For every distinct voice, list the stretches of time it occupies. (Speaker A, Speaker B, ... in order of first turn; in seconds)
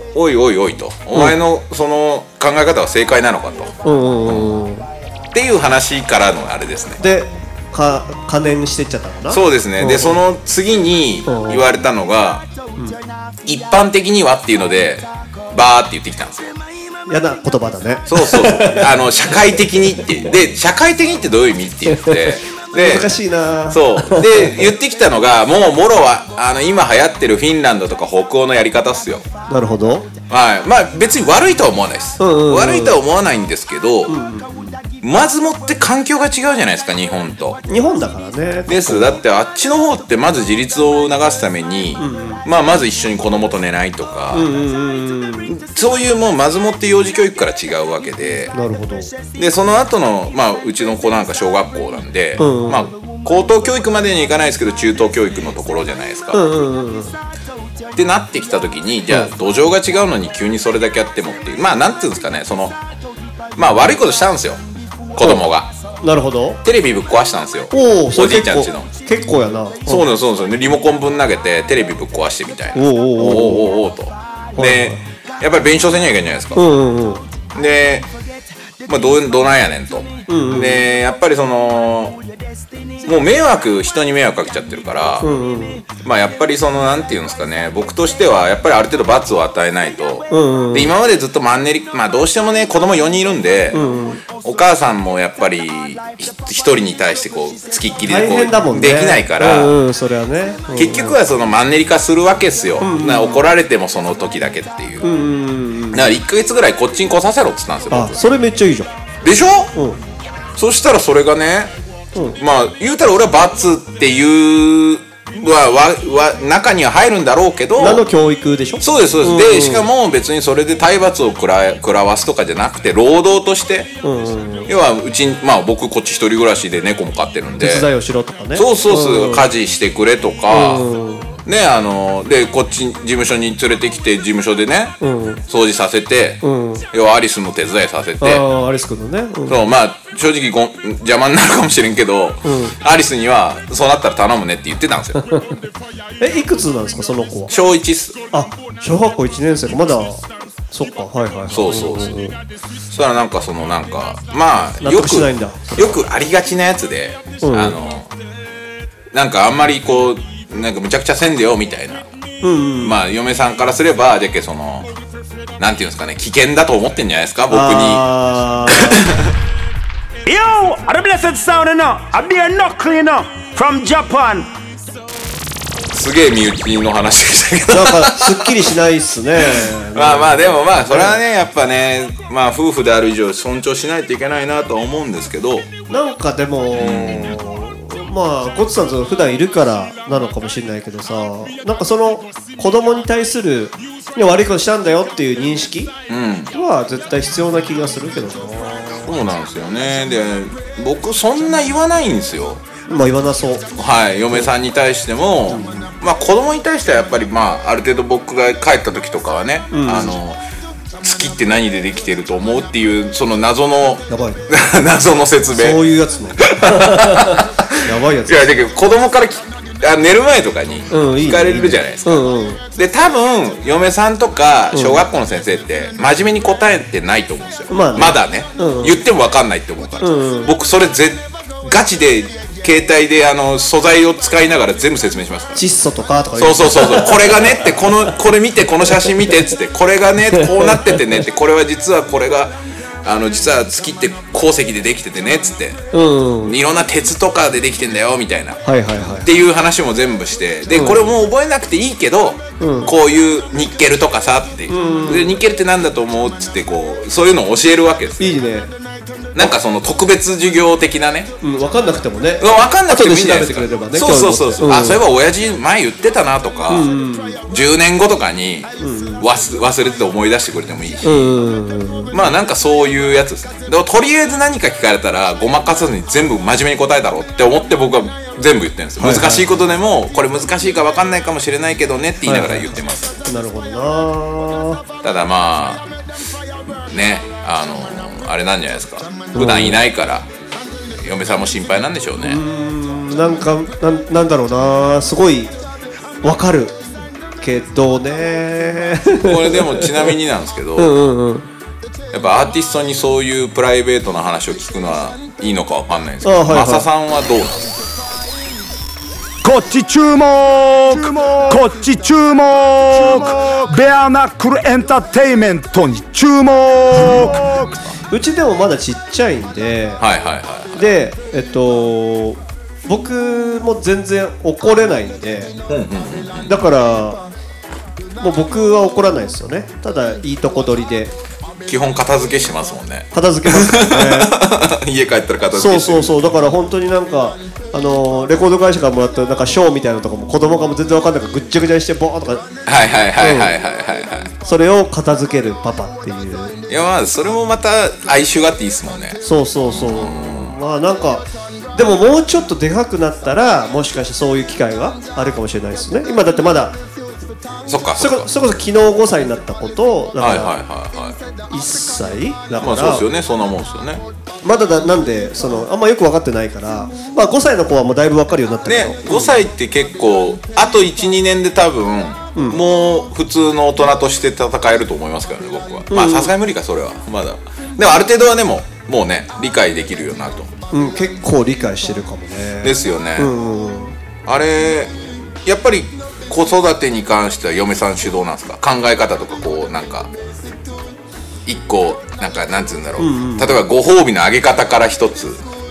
Speaker A: 0.1-4.6, 5.3-7.0, 9.3-12.4, 13.4-16.5, 18.1-23.2, 23.7-29.2, 30.3-34.1, 35.0-37.6, 38.7-44.5, 45.5-48.5, 49.3-56.4, 57.9-62.8, 63.5-64.6, 65.1-65.7, 66.6-68.9, 69.8-76.6, 77.5-78.1, 78.9-82.2, 83.0-85.3, 86.0-99.8, 100.7-105.1, 105.9-108.2, 109.2-109.8, 110.5-111.7, 112.4-118.0, 118.8-124.0, 124.7-127.9, 128.5-130.9, 131.4-135.0, 135.5-138.4, 139.5-145.2, 147.5-148.2, 151.5-152.2, 152.9-158.1, 159.1-162.1, 162.8-164.9, 165.6-168.0, 168.7-169.3, 175.9-178.7, 179.4-185.7, 186.7-187.4, 196.1-196.5, 199.0-202.6, 203.7-210.4, 211.0-215.8, 216.4-235.6, 236.3-245.8, 246.4-258.3, 259.3-261.3, 262.4-266.9, 267.5-271.4, 272.1-283.2, 285.0-285.9, 286.7-290.3, 291.0-292.4, 299.2-300.9, 302.1-307.7, 320.0-320.9, 325.7-326.6, 331.6-336.2, 342.6-344.3, 346.7-350.6, 357.7-358.3, 360.2-361.2, 362.6-364.0, 368.6-380.5, 382.6-383.3, 384.2-390.1, 391.4-395.4
Speaker B: 3.8-4.9, 7.0-10.2, 11.3-11.7, 17.1-19.0, 21.9-24.7, 29.5-30.1, 32.2-33.0, 34.1-34.8, 37.7-39.2, 42.0-42.4, 44.3-45.5, 48.5-49.1, 52.4-52.9, 56.3-57.1, 66.0-66.6, 67.7-70.1, 72.7-73.7, 74.5-75.0, 76.5-77.2, 80.3-80.8, 85.2-85.8, 90.3-90.9, 93.7-94.2, 98.1-101.2, 102.8-103.5, 105.0-106.1, 107.9-108.9, 109.7-110.0, 117.8-119.9, 124.0-124.7, 127.6-129.5, 130.5-131.3, 135.0-135.4, 136.4-136.8, 138.2-139.6, 142.4-142.8, 145.2-145.6, 146.2-147.5, 148.3-152.4, 154.8-156.0, 157.4-157.8, 162.4-163.0, 167.5-169.1, 177.7-181.2, 185.9-195.9, 196.5-199.2, 202.9-203.7, 205.5-205.9, 209.7-210.2, 214.1-214.4, 215.5-218.6, 220.9-222.6, 224.7-225.0, 227.7-229.0, 230.0-230.5, 235.5-238.2, 240.3-241.0, 245.9-246.6, 248.6-249.3, 250.7-251.1, 252.6-252.9, 254.7-255.4, 258.2-258.7, 261.4-265.0, 266.7-267.4, 268.8-269.2, 271.0-272.2, 279.0-279.5, 282.2-284.8, 289.3-289.8, 292.2-295.5, 296.2-296.8, 297.4-300.1, 300.8-301.5, 306.2-306.9, 318.1-320.0, 320.7-325.5, 326.5-327.2, 328.2-331.1, 333.1-334.3, 335.5-342.5, 343.2-343.5, 344.4-346.6, 349.2-356.8, 358.0-360.5, 361.5-363.0, 364.4-369.4, 372.3-372.6, 375.9-376.3, 380.7-384.0, 393.0-393.6
Speaker C: 170.2-174.5, 309.4-317.8